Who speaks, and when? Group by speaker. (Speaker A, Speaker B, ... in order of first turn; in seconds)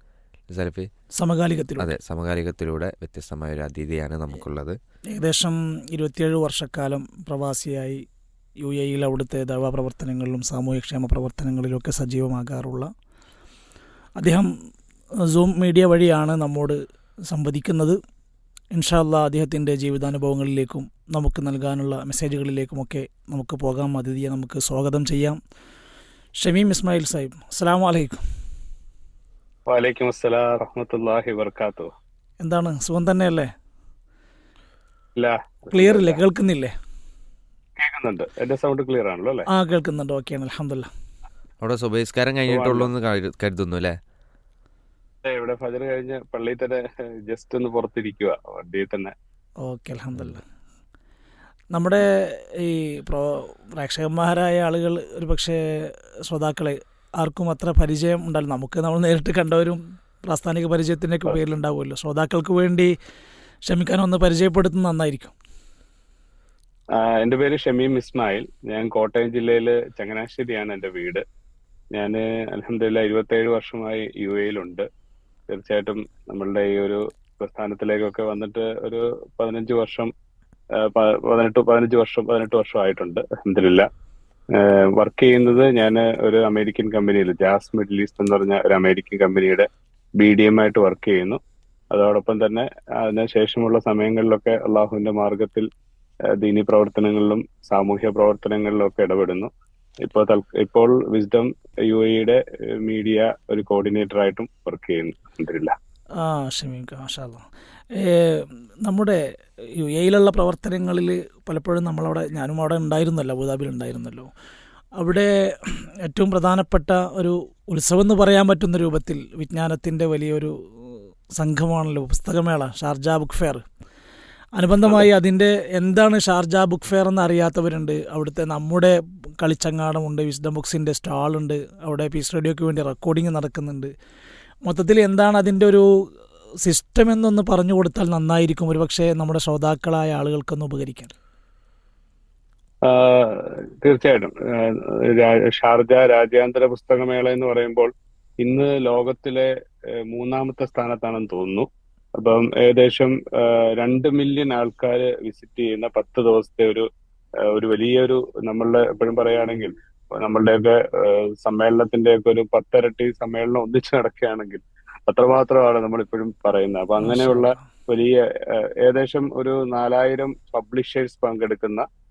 Speaker A: 0.5-0.9, 1.8-4.8, 41.6-44.0
Speaker B: 1.2-1.9, 5.1-8.0, 8.6-12.9, 14.2-14.5, 15.3-18.0, 18.7-25.4, 26.4-28.2, 32.4-33.5, 35.7-36.7, 39.5-40.9, 49.6-50.4, 51.7-62.9, 63.6-65.3, 106.2-107.4, 107.9-114.3, 115.0-123.6, 124.6-133.9, 134.7-135.9, 136.6-141.1, 167.0-167.6
Speaker C: 29.7-31.9, 35.1-36.2, 37.8-39.5, 42.5-42.9, 45.2-49.1, 66.9-71.2, 71.9-74.8, 75.5-80.1, 80.8-83.9, 84.5-89.7, 90.2-91.4, 91.9-95.7, 96.4-99.5, 100.0-105.7, 142.8-147.9, 148.4-151.7, 152.2-156.8, 157.4-171.8